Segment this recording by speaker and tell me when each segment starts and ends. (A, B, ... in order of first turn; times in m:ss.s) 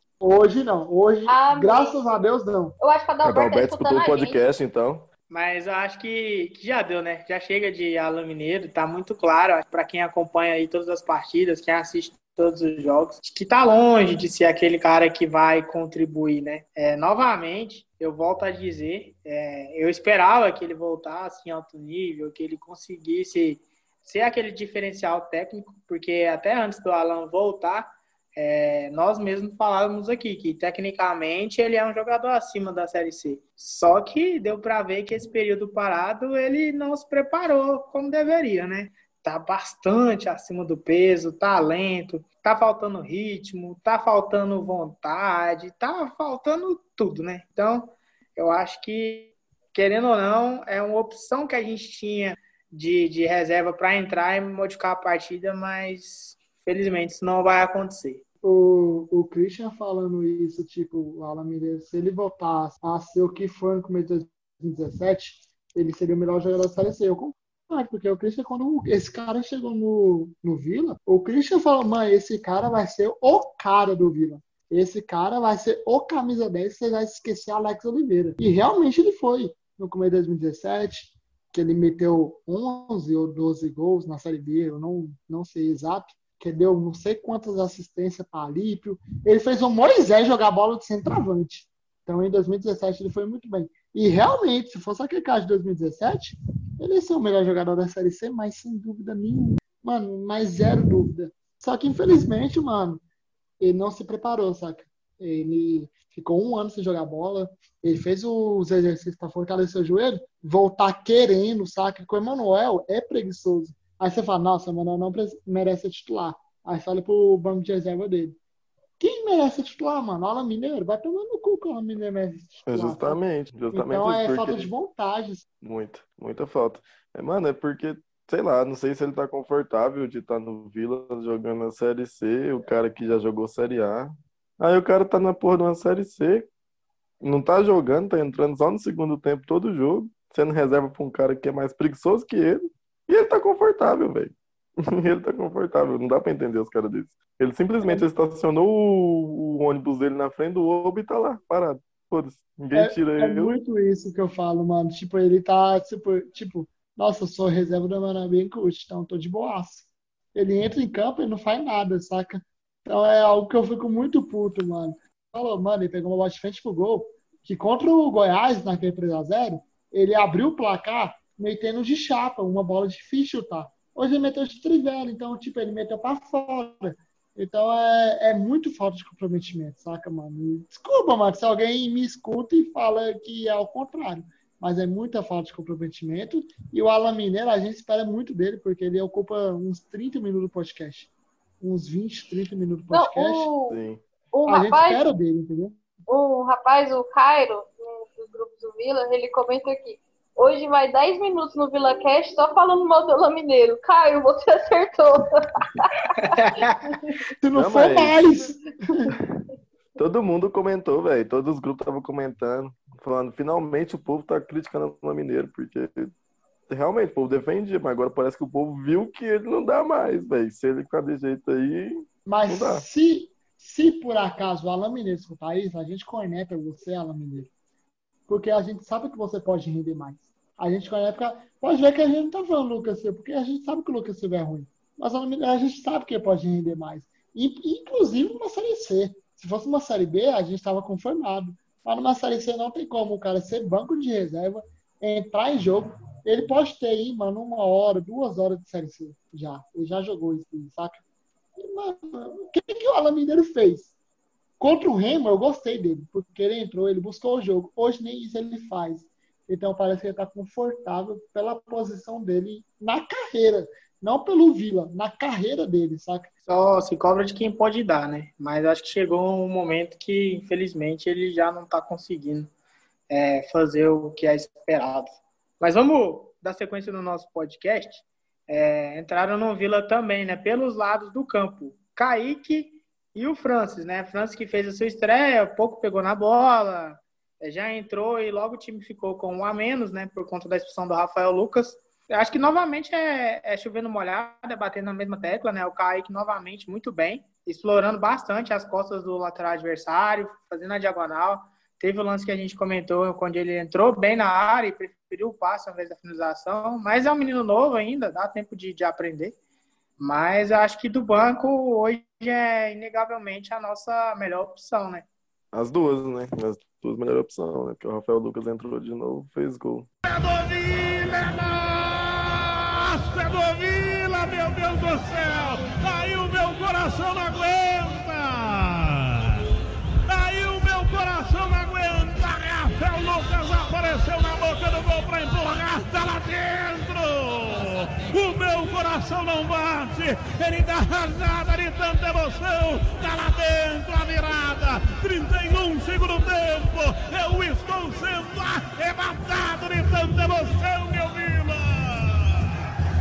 0:00.2-0:02.8 A
0:01.3-0:02.2 B
0:02.8-0:04.4 B
0:03.2-0:05.1 C
0:05.3-0:58.2 D
0:58.4-1:43.0 A
1:43.6-1:58.4 A
1:59.0-2:03.2 A
2:02.7-2:04.7 C
2:03.7-2:05.4 A
2:05.6-2:16.5 C
2:17.2-2:24.3 C
2:24.9-2:33.5 C
2:32.7-3:13.5 A
3:12.9-3:13.8 B
3:13.7-3:14.0 C
3:14.3-3:15.1 B
3:14.5-3:15.8 A
3:16.1-3:26.4 B
3:26.3-3:26.9 D
3:27.4-3:29.1 A
3:27.5-3:28.2 C
3:30.0-3:36.1 C
3:36.7-3:42.8 C
3:42.3-3:47.5 A
3:48.3-4:11.0 A
4:11.6-4:13.9 A
4:14.6-4:26.3 A
4:26.5-4:32.5 D
4:33.1-5:09.4 D
5:10.0-5:15.1 D
5:15.5-5:19.9 C
5:20.0-5:29.4 E
5:30.1-5:52.6 E